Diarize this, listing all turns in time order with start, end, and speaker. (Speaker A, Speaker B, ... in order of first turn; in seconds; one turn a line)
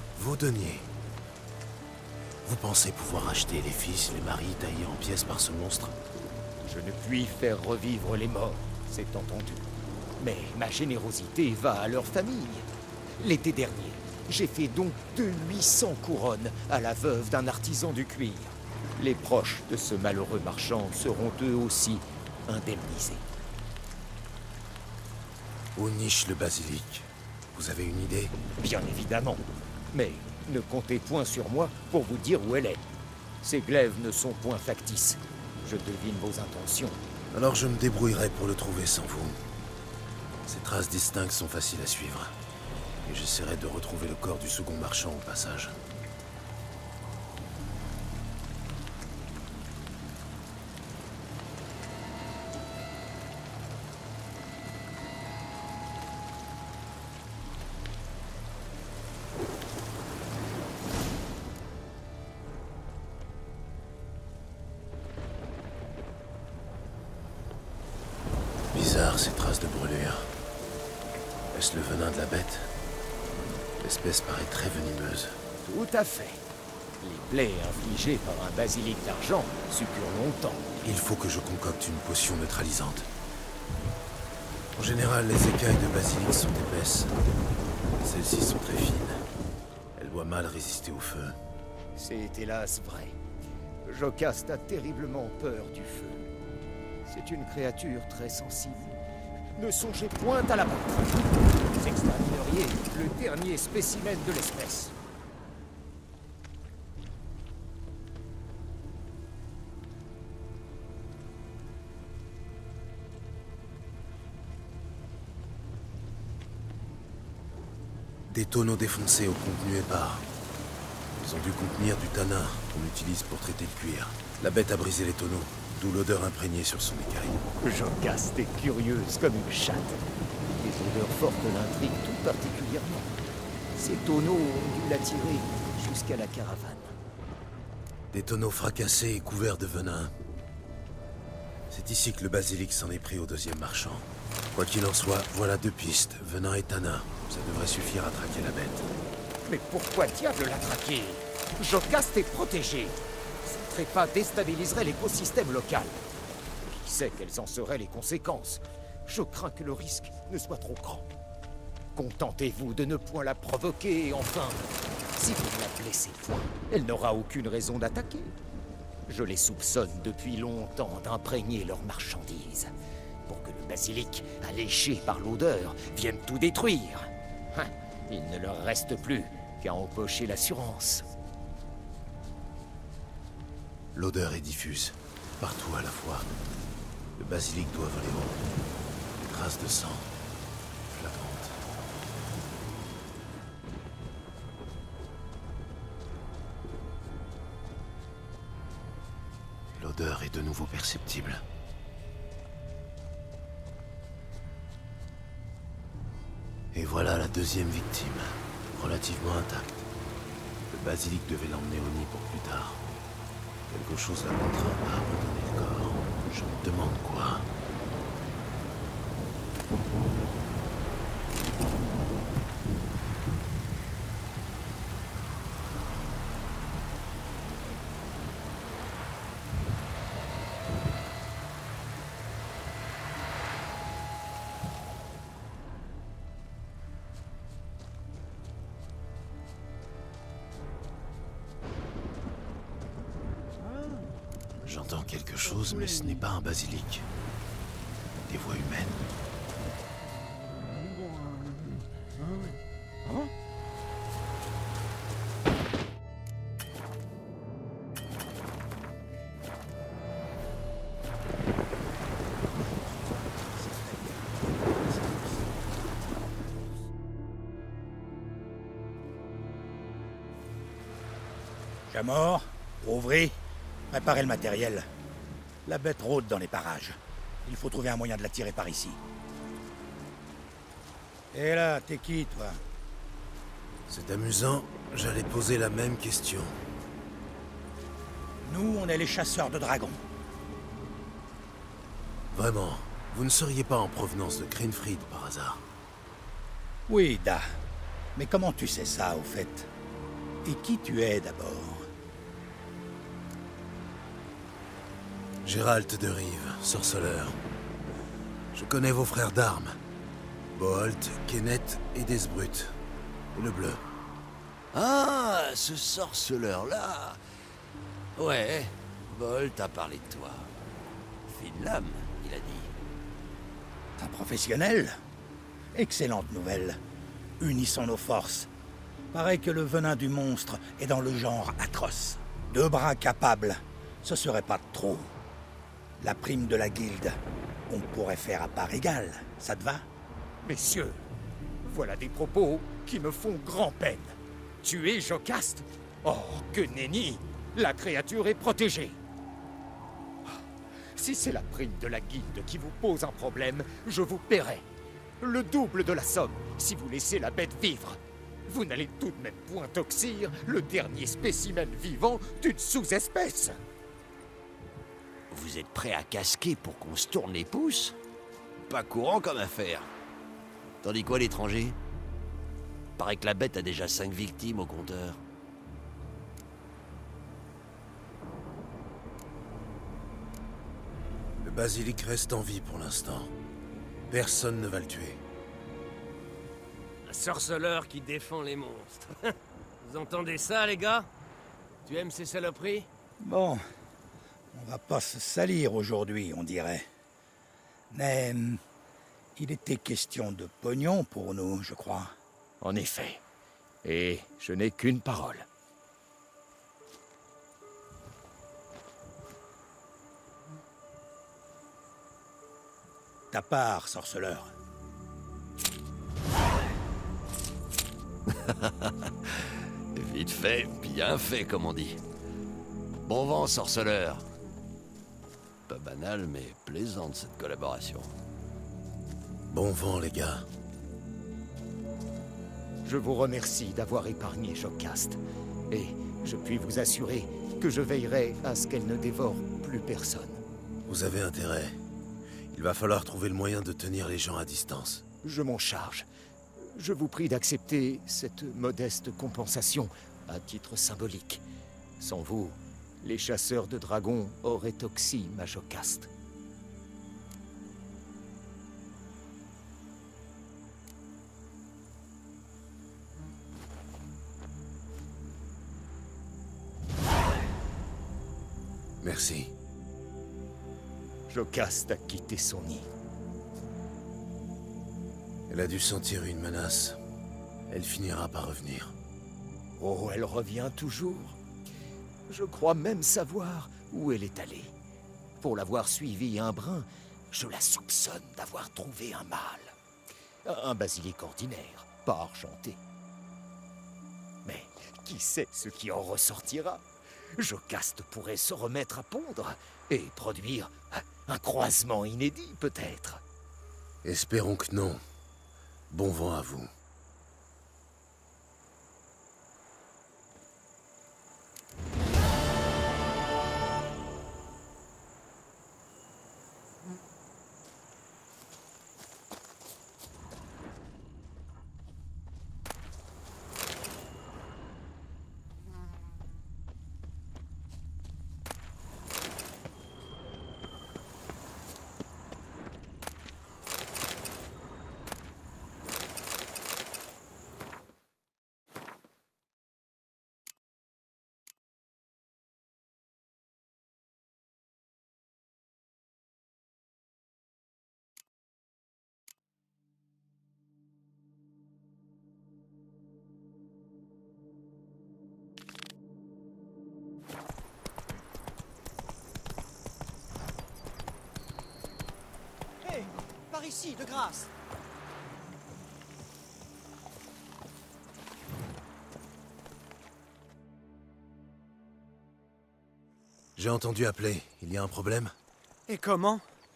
Speaker A: 0.1-0.9
Speaker A: 2.4-6.0
Speaker B: 6.6-12.7
Speaker B: 13.2-23.2
Speaker A: 25.7-28.3
Speaker B: 28.5-32.8
Speaker B: 33.4-37.0
Speaker A: 37.3-39.4
Speaker A: 40.4-42.3
Speaker A: 43.0-45.8
Speaker A: 68.7-70.3
Speaker A: 71.5-72.7
Speaker A: 73.8-75.3
Speaker B: 75.6-76.4
Speaker B: 77.0-80.8
Speaker A: 80.8-83.1
Speaker A: 84.7-87.1
Speaker A: 88.0-89.2
Speaker A: 90.0-91.4
Speaker B: 92.0-93.2
Speaker B: 93.8-96.3
Speaker B: 97.0-98.9
Speaker B: 99.5-105.0
Speaker A: 118.3-120.2
Speaker A: 121.2-127.4
Speaker B: 127.6-133.2
Speaker B: 133.7-136.9
Speaker A: 138.1-140.1
Speaker A: 141.7-148.9
Speaker B: 149.4-156.0
Speaker B: 156.6-161.1
Speaker B: 161.9-168.3
Speaker B: 169.1-172.7
Speaker B: 173.3-181.1
Speaker A: 183.9-186.3
Speaker A: 187.2-188.4
Speaker A: 189.2-190.1
Speaker A: 190.9-191.6
Speaker A: 199.7-201.4
Speaker A: 206.7-209.8
Speaker A: 210.7-212.8
Speaker A: 213.7-217.5
Speaker C: 243.6-244.1
Speaker A: 244.6-247.1
Speaker C: 245.5-246.1
Speaker A: 248.2-249.0
Speaker C: 250.7-251.6
Speaker C: 252.2-253.3
Speaker D: 271.9-273.3
Speaker D: 273.9-274.9
Speaker D: 275.6-279.0
Speaker D: 281.3-282.6
Speaker A: 283.9-286.6
Speaker D: 288.4-290.0
Speaker A: 292.3-295.6
Speaker D: 296.9-297.5
Speaker D: 298.1-299.7
Speaker D: 300.4-301.9
Speaker A: 305.4-307.4
Speaker A: 308.5-309.8
Speaker A: 310.5-312.8
Speaker A: 313.3-313.8
Speaker E: 314.7-317.2
Speaker E: 318.1-320.5
Speaker E: 321.3-322.7
Speaker D: 324.0-325.0
Speaker D: 325.7-326.8
Speaker D: 327.4-328.5
Speaker D: 329.1-335.1
Speaker D: 336.0-337.2
Speaker D: 337.7-339.8
Speaker B: 340.4-341.0
Speaker B: 341.6-349.0
Speaker B: 350.9-354.6
Speaker B: 355.2-363.6
Speaker E: 365.3-367.9
Speaker E: 368.6-369.9
Speaker E: 370.8-371.8
Speaker E: 373.0-375.2
Speaker A: 381.4-383.3
Speaker A: 384.1-385.2
Speaker F: 387.1-391.1
Speaker F: 391.8-392.9
Speaker D: 393.2-393.6
Speaker D: 394.5-396.9
Speaker D: 397.9-398.6
Speaker D: 399.4-402.1
Speaker B: 402.6-403.2
Speaker B: 403.8-405.5
Speaker D: 413.3-414.5
Speaker E: 418.3-422.0
Speaker E: 423.0-424.3
Speaker E: 425.7-428.1
Speaker A: 429.5-430.4
Speaker B: 432.8-440.4
Speaker A: 440.9-441.7
Speaker A: 442.5-445.0
Speaker B: 445.2-446.1
Speaker B: 446.6-451.4
Speaker B: 452.0-456.1
Speaker A: 469.0-469.5
Speaker B: 471.3-472.9
Speaker A: 475.5-477.0
Speaker A: 477.7-478.9
Speaker B: 479.8-481.4
Speaker B: 482.3-484.7
Speaker B: 485.4-489.7
Speaker B: 490.4-492.8
Speaker B: 494.4-496.8
Speaker B: 497.3-503.2
Speaker A: 504.0-505.0
Speaker A: 505.9-506.7
Speaker C: 562.8-564.5
Speaker A: 573.5-575.3
Speaker C: 575.9-576.4